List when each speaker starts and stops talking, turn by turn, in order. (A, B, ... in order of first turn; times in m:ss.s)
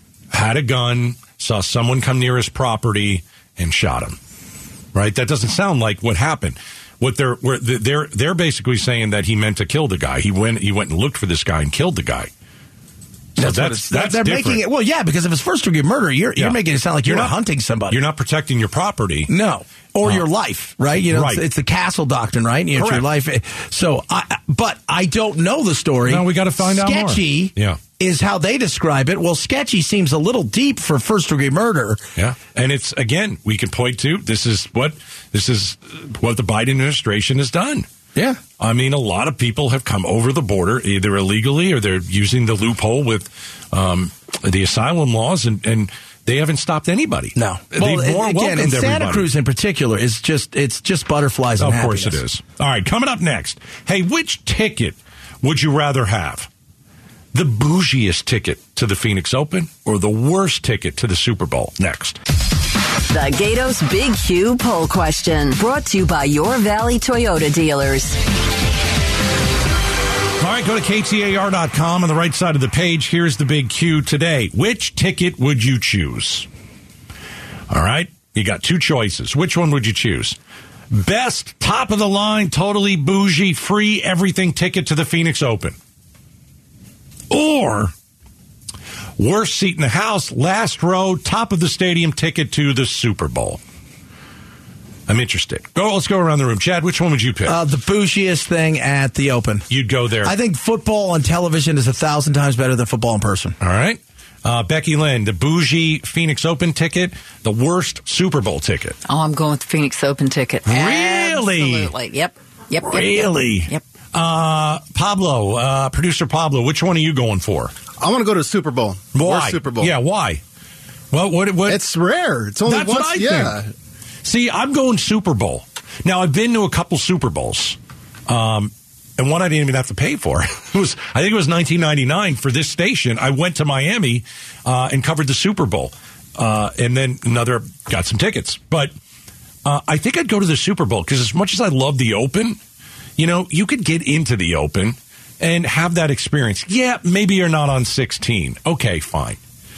0:00.3-0:04.2 A
0:04.9-0:12.3 A
0:13.4-0:14.6 A
0:13.4-0:18.0 B
0:16.4-0:17.4 A
0:17.9-0:19.3 A
0:19.3-0:32.0 B
0:21.1-0:21.4 A
0:22.8-0:23.1 A
0:26.1-0:27.8 A
0:32.2-0:37.9 A
0:38.2-0:38.4 B
0:38.6-0:49.3 A
0:47.4-0:52.2 B
0:51.6-0:56.5 A
0:57.3-1:02.2 A
1:03.1-1:08.2 C
1:10.4-1:16.5 A
1:17.7-1:20.4 A
1:20.9-1:25.8 A
1:27.3-1:27.9 A
1:29.2-1:33.6 A
1:35.1-1:37.6 A
1:37.4-1:39.7 B
1:39.7-1:40.3 A
1:40.2-1:43.6 B
1:43.6-1:49.0 A
1:49.1-1:53.8 D
1:50.7-1:51.9 A
1:52.9-1:57.7 A
1:58.0-1:59.9 E
1:59.1-2:00.4 A
2:01.1-2:01.8 A
2:01.7-2:03.7 E
2:02.6-2:03.6 A
2:04.2-2:07.8 A
2:08.3-2:18.9 A
2:19.6-2:22.6 A
2:23.2-2:29.4 A